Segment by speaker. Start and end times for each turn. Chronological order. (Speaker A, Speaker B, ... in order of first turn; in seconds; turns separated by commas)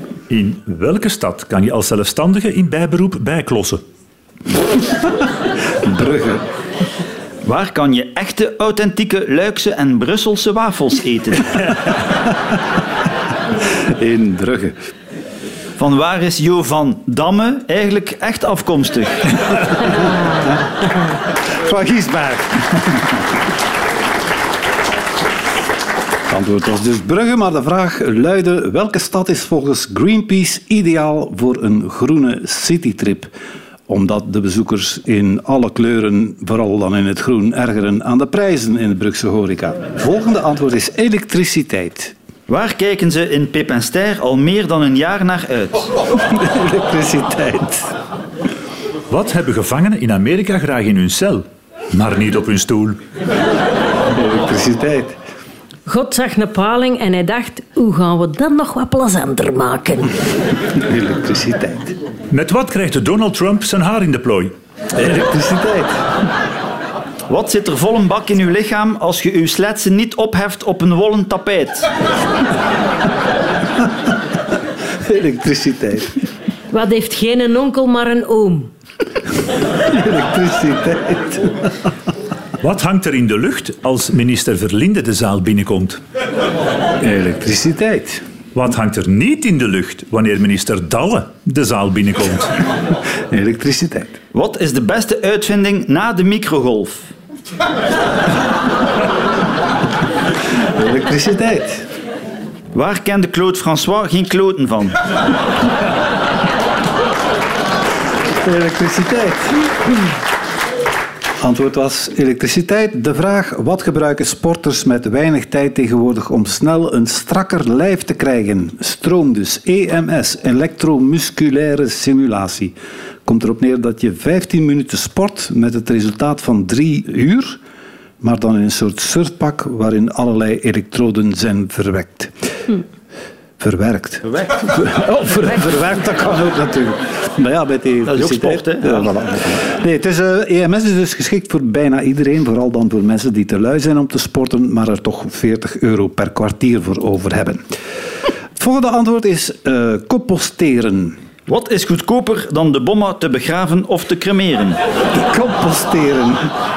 Speaker A: 0.3-3.8, Speaker B: 5.8-6.4, Speaker C: 7.4-11.7, Speaker B: 13.9-14.8, Speaker C: 15.8-19.3, Speaker B: 21.5-22.8, Speaker B: 26.3-33.3, Speaker B: 33.9-42.1, Speaker C: 42.5-45.9, Speaker B: 46.2-47.9, Speaker A: 49.1-53.0, Speaker B: 54.1-55.2, Speaker D: 55.9-60.1, Speaker B: 60.7-62.0, Speaker A: 62.3-64.5, Speaker B: 65.0-66.0, Speaker C: 67.3-71.9, Speaker B: 75.0-76.1, Speaker D: 76.7-78.7, Speaker B: 79.9-81.7, Speaker A: 82.6-86.0, Speaker B: 87.0-88.2, Speaker A: 88.5-92.5, Speaker B: 93.3-94.1, Speaker C: 94.3-97.1, Speaker B: 100.8-101.8, Speaker C: 102.7-105.0, Speaker B: 108.4-109.6, Speaker B: 111.4-127.6, Speaker B: 128.2-132.3, Speaker B: 133.6-147.7, Speaker C: 134.3-134.6, Speaker C: 138.1-139.1, Speaker B: 148.6-151.2, Speaker C: 151.5-154.8, Speaker B: 155.1-156.4